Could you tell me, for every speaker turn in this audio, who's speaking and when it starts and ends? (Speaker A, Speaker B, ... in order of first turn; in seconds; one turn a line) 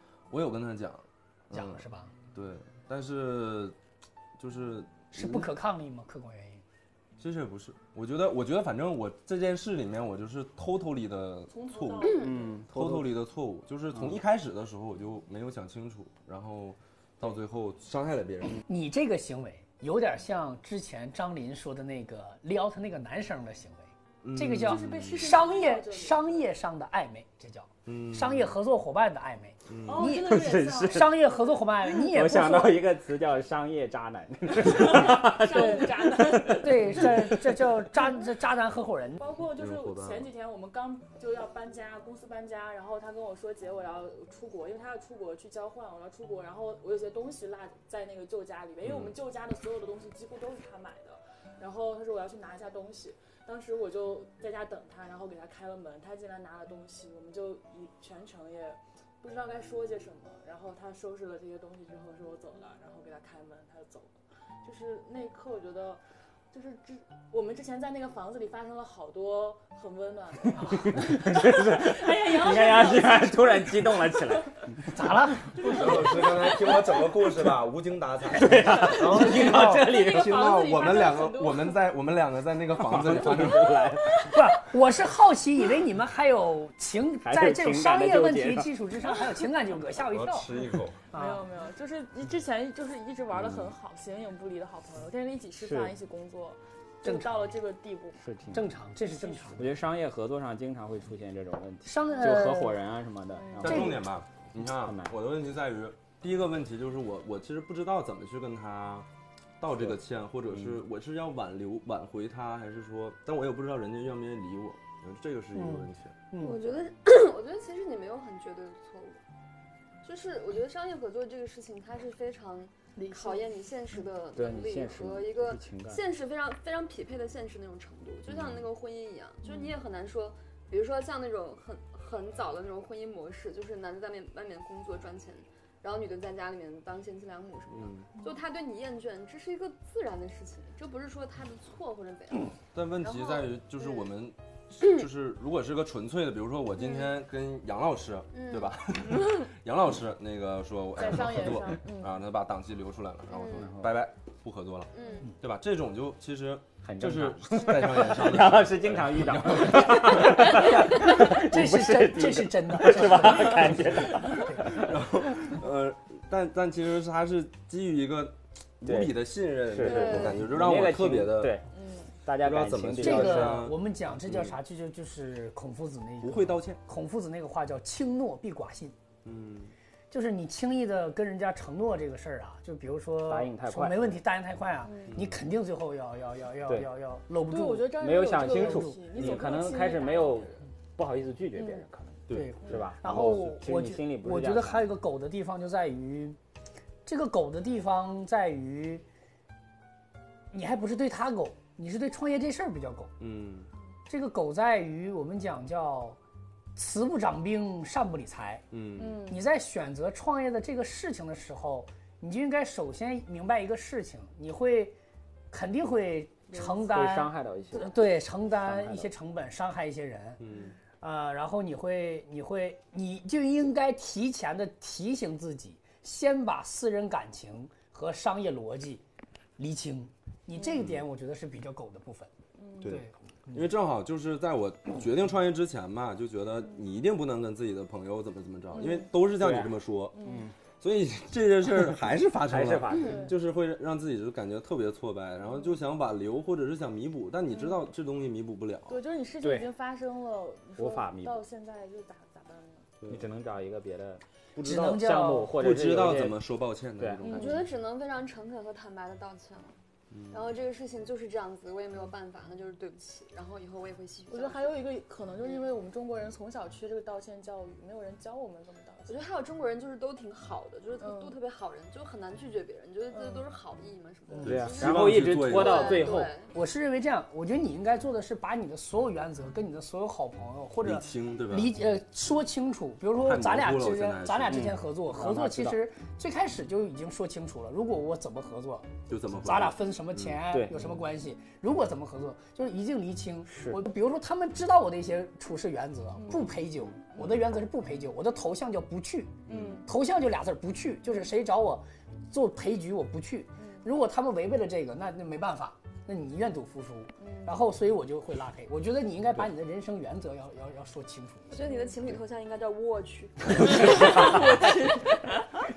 Speaker A: 0.3-3.8
Speaker B: 1.5-2.1
Speaker A: 4.4-5.5
Speaker B: 5.1-6.6
Speaker A: 7.2-18.6
Speaker C: 11.5-12.7
Speaker D: 12.0-12.4
Speaker E: 12.2-13.2
Speaker B: 18.7-32.8
Speaker A: 24.2-25.3
Speaker C: 24.6-26.5
Speaker A: 27.9-28.5
Speaker A: 29.7-30.1
Speaker C: 29.8-31.5
Speaker E: 30.1-31.2
Speaker E: 31.8-37.4
Speaker C: 34.5-37.4
Speaker B: 35.5-35.8
Speaker B: 36.5-39.3
Speaker C: 39.2-74.5
Speaker A: 39.6-40.3
Speaker A: 48.8-49.1
Speaker E: 70.6-74.8
Speaker B: 74.9-75.4
Speaker C: 75.5-77.2
Speaker A: 75.6-83.8
Speaker E: 78.3-80.4
Speaker C: 78.6-81.8
Speaker E: 82.8-84.5
Speaker B: 84.3-90.5
Speaker E: 87.2-88.7
Speaker A: 90.1-91.0
Speaker B: 91.1-91.5
Speaker C: 91.1-98.2
Speaker E: 95.6-95.9
Speaker B: 97.0-97.3
Speaker E: 98.2-98.7
Speaker B: 98.5-99.7
Speaker C: 99.2-99.6
Speaker E: 99.6-104.0
Speaker B: 101.8-102.8
Speaker C: 103.4-103.8
Speaker A: 103.6-109.1
Speaker E: 104.6-105.2
Speaker A: 109.6-116.2
Speaker E: 110.5-110.8
Speaker B: 115.5-116.6
Speaker D: 116.4-119.2
Speaker D: 120.0-144.1
Speaker B: 123.0-123.5
Speaker E: 124.3-126.0
Speaker A: 128.3-128.7
Speaker C: 129.4-129.8
Speaker A: 137.7-138.1
Speaker A: 142.7-160.6
Speaker D: 144.8-145.1
Speaker D: 146.8-147.1
Speaker D: 148.3-149.3
Speaker C: 151.0-152.2
Speaker D: 153.3-153.7
Speaker E: 153.5-153.9
Speaker D: 154.9-155.3
Speaker E: 156.8-164.9
Speaker B: 160.4-163.8
Speaker A: 164.7-171.6
Speaker E: 168.8-169.2
Speaker E: 169.7-171.7
Speaker D: 169.8-170.4
Speaker E: 172.2-173.7
Speaker A: 172.4-174.6
Speaker B: 173.0-178.9
Speaker A: 176.2-176.8
Speaker A: 179.2-179.7
Speaker B: 180.1-189.0
Speaker E: 183.3-184.2
Speaker C: 184.8-185.1
Speaker A: 185.1-185.3
Speaker C: 187.5-190.6
Speaker E: 188.0-194.9
Speaker A: 192.3-192.6
Speaker B: 192.3-196.4
Speaker B: 197.1-199.0
Speaker B: 200.5-203.1
Speaker A: 203.2-203.7
Speaker B: 204.1-206.2
Speaker B: 206.8-208.7
Speaker A: 208.7-209.2
Speaker C: 209.0-209.4
Speaker B: 209.2-215.0
Speaker B: 215.5-220.4
Speaker E: 216.6-219.1
Speaker A: 220.4-220.7
Speaker B: 221.0-229.0
Speaker B: 229.6-232.3
Speaker A: 230.8-231.0
Speaker C: 232.6-233.0
Speaker A: 232.8-240.2
Speaker B: 232.8-233.6
Speaker C: 238.7-239.1
Speaker E: 239.4-240.5
Speaker C: 240.1-240.5
Speaker A: 240.8-249.0
Speaker E: 242.5-243.3
Speaker D: 242.9-243.2
Speaker C: 243.0-243.3
Speaker C: 247.5-247.8
Speaker C: 248.9-252.9
Speaker E: 249.4-249.7
Speaker E: 250.8-251.4
Speaker E: 253.1-256.4
Speaker A: 254.6-257.7
Speaker B: 254.6-255.5
Speaker C: 257.2-257.7
Speaker D: 257.3-259.8
Speaker A: 260.1-260.5
Speaker D: 260.3-264.8
Speaker C: 264.3-269.2
Speaker D: 269.1-276.5
Speaker C: 271.0-271.4
Speaker C: 273.1-273.5
Speaker B: 274.3-274.6
Speaker A: 274.4-276.0
Speaker E: 274.4-276.3
Speaker B: 276.5-311.6
Speaker A: 280.8-281.7
Speaker A: 283.2-284.7
Speaker E: 284.5-285.8
Speaker A: 289.1-290.4
Speaker E: 290.5-290.9
Speaker E: 293.5-293.8
Speaker C: 296.2-296.6
Speaker A: 299.5-299.8
Speaker C: 299.5-299.9
Speaker C: 307.2-307.6
Speaker D: 311.5-315.3
Speaker C: 311.6-312.0
Speaker C: 313.7-314.9